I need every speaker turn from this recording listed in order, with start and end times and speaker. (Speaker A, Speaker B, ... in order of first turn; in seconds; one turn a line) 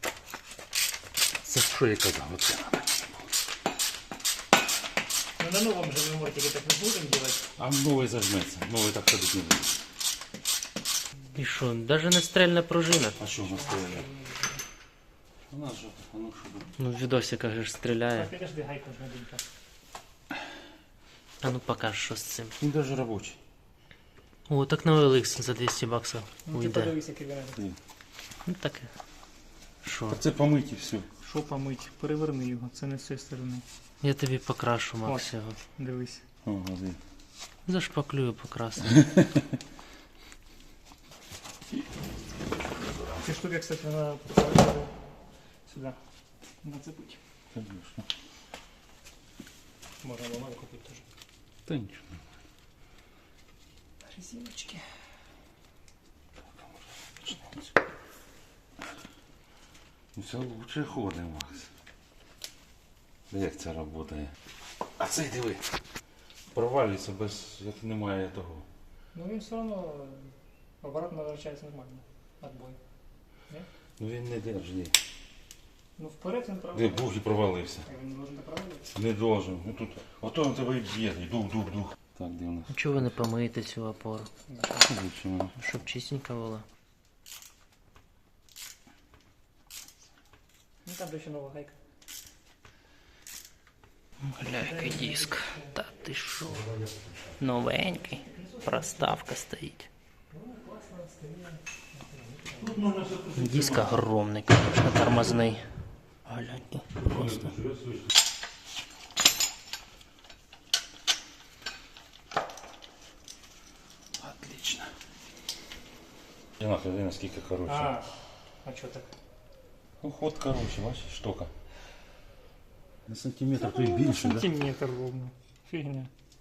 Speaker A: 1.4-3.2
Speaker B: 5.4-7.5
Speaker A: 7.6-9.7
Speaker C: 11.3-13.2
Speaker A: 13.2-14.1
Speaker B: 13.2-14.6
Speaker A: 15.5-16.7
Speaker C: 16.8-18.3
Speaker B: 18.1-19.4
Speaker C: 21.4-22.6
Speaker A: 22.6-23.4
Speaker C: 24.5-26.9
Speaker B: 26.4-27.6
Speaker C: 28.4-28.9
Speaker C: 29.8-30.2
Speaker A: 30.1-31.1
Speaker B: 31.2-33.6
Speaker C: 34.0-35.6
Speaker B: 35.0-36.2
Speaker A: 36.4-37.0
Speaker C: 37.7-39.1
Speaker B: 43.2-44.9
Speaker B: 45.7-46.0
Speaker B: 46.6-47.2
Speaker A: 47.5-48.0
Speaker B: 50.0-51.0
Speaker A: 51.7-52.1
Speaker B: 54.0-54.8
Speaker A: 60.1-61.7
Speaker A: 63.3-64.3
Speaker A: 65.0-65.6
Speaker A: 66.5-68.7
Speaker B: 69.1-72.8
Speaker A: 74.0-74.9
Speaker B: 76.0-77.1
Speaker A: 76.7-77.8
Speaker B: 77.8-78.9
Speaker A: 78.9-83.0
Speaker C: 82.7-84.3
Speaker B: 84.5-84.8
Speaker A: 84.9-85.5
Speaker C: 85.5-86.6
Speaker B: 90.8-91.8
Speaker C: 94.3-96.7
Speaker B: 94.4-95.8
Speaker C: 97.4-99.9
Speaker B: 98.2-99.2
Speaker B: 100.3-102.7
Speaker A: 102.5-104.0
Speaker C: 103.3-105.7
Speaker C: 106.2-107.5
Speaker A: 107.0-108.1
Speaker A: 114.2-114.9
Speaker A: 116.6-117.9
Speaker B: 117.7-118.0
Speaker B: 118.6-119.1
Speaker A: 120.0-121.5
Speaker A: 123.1-124.5
Speaker B: 123.5-126.1